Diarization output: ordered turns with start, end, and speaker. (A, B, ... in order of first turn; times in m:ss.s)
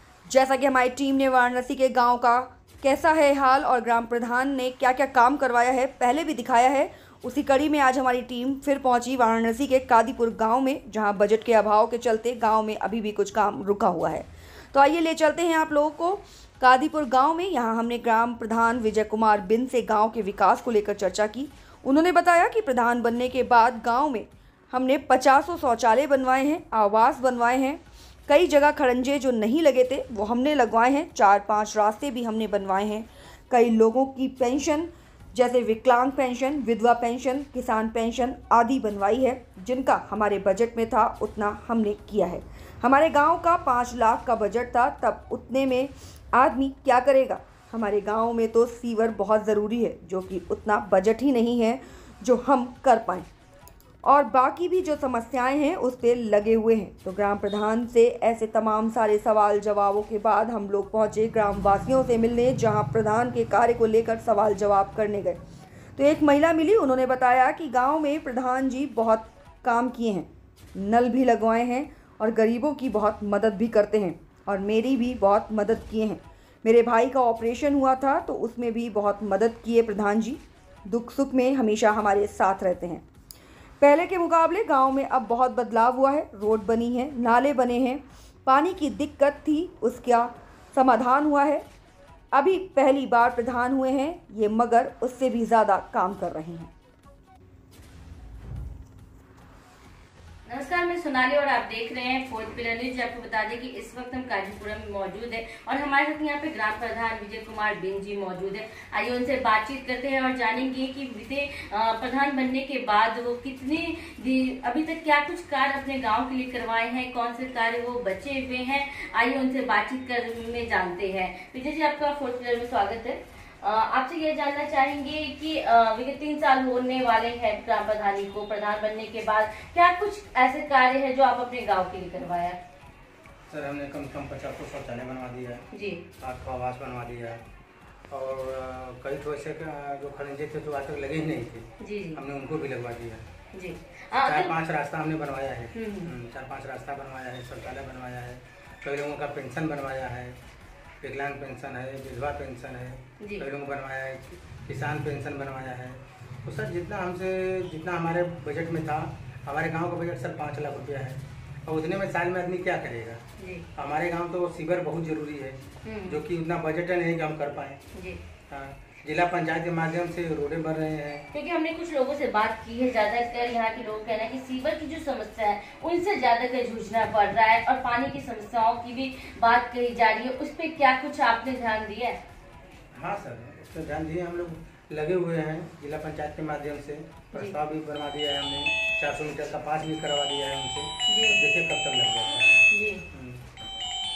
0:00.3-0:53.3 A
0:54.0-1:05.4 A
1:06.0-1:23.0 A
1:23.8-1:31.6 A
1:32.3-1:36.7 A
1:40.4-2:12.6 B
2:13.5-2:15.6 C
2:15.7-2:16.0 B
2:16.2-2:17.4 C
2:18.1-2:23.2 C
2:21.8-2:22.2 B
2:23.5-2:24.5 B
2:24.2-2:30.4 C
2:25.7-2:26.1 B
2:31.0-2:43.2 C
2:33.2-2:33.4 B
2:43.4-2:43.6 B
2:43.8-2:47.8 C
2:45.8-2:46.2 B
2:47.9-2:48.2 B
2:48.5-2:51.2 C
2:51.3-3:02.2 B
3:02.9-3:13.4 C
3:11.1-3:11.4 B
3:12.7-3:13.0 B